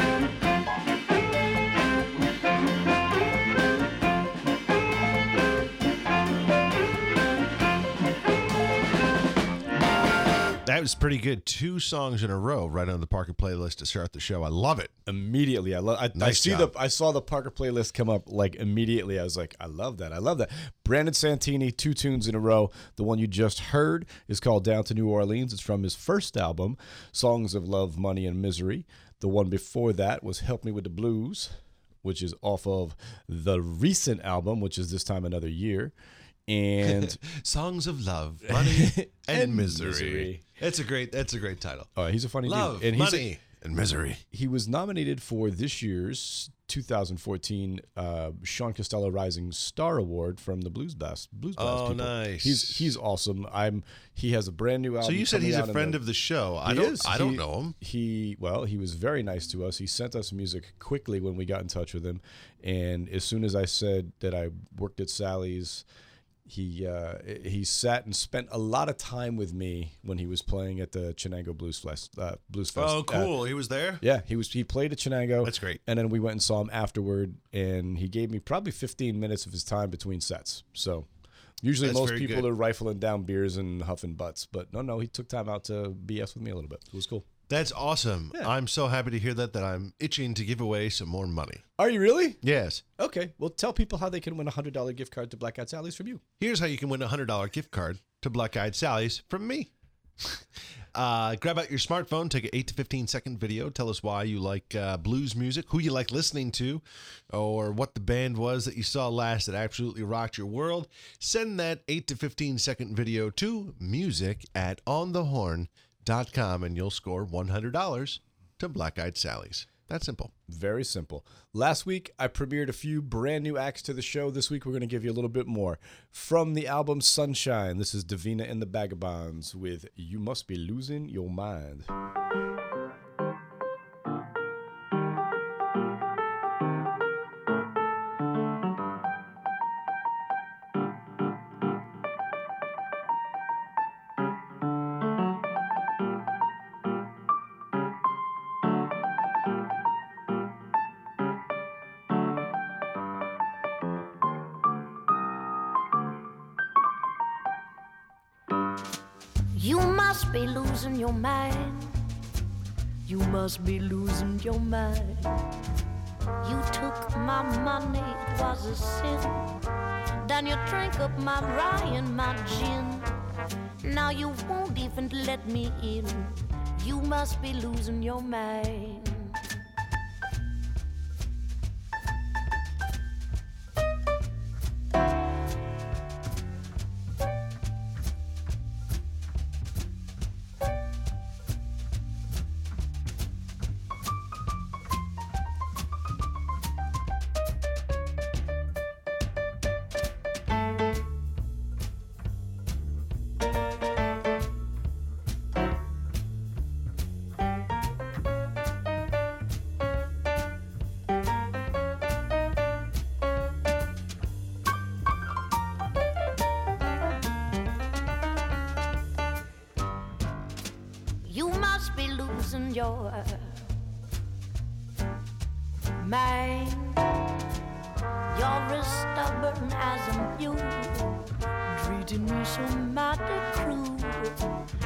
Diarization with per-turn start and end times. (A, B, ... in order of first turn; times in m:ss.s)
0:10.6-0:14.9 A
0:15.1-0:35.9 B
0:16.1-0:16.7 A
0:36.5-0:37.2 B
0:36.8-0:41.9 A
0:38.5-0:40.4 B
0:42.0-0:43.3 B
0:42.4-0:44.2 A
0:44.3-0:56.0 B
0:51.6-0:52.9 A
0:55.0-0:57.8 A
0:56.6-1:05.8 B
1:06.4-1:13.4 B
1:12.7-1:14.0 A
1:14.0-1:21.1 B
1:15.4-1:15.8 A
1:21.6-1:27.3 B
1:21.8-1:22.5 A
1:27.5-1:31.6 A
1:31.8-1:32.4 B
1:32.4-1:32.8 A
1:33.0-1:36.2 B
1:36.4-1:39.7 A
1:40.9-2:00.3 A
2:00.5-2:11.9 B
2:39.6-2:41.9 C
2:43.1-2:45.2 C
2:46.4-2:49.4 C
2:50.2-2:53.0 C
2:53.8-2:59.1 C
3:41.3-3:43.4 C
3:46.0-3:47.0 C
3:48.3-3:51.2 C
3:51.7-3:54.3 C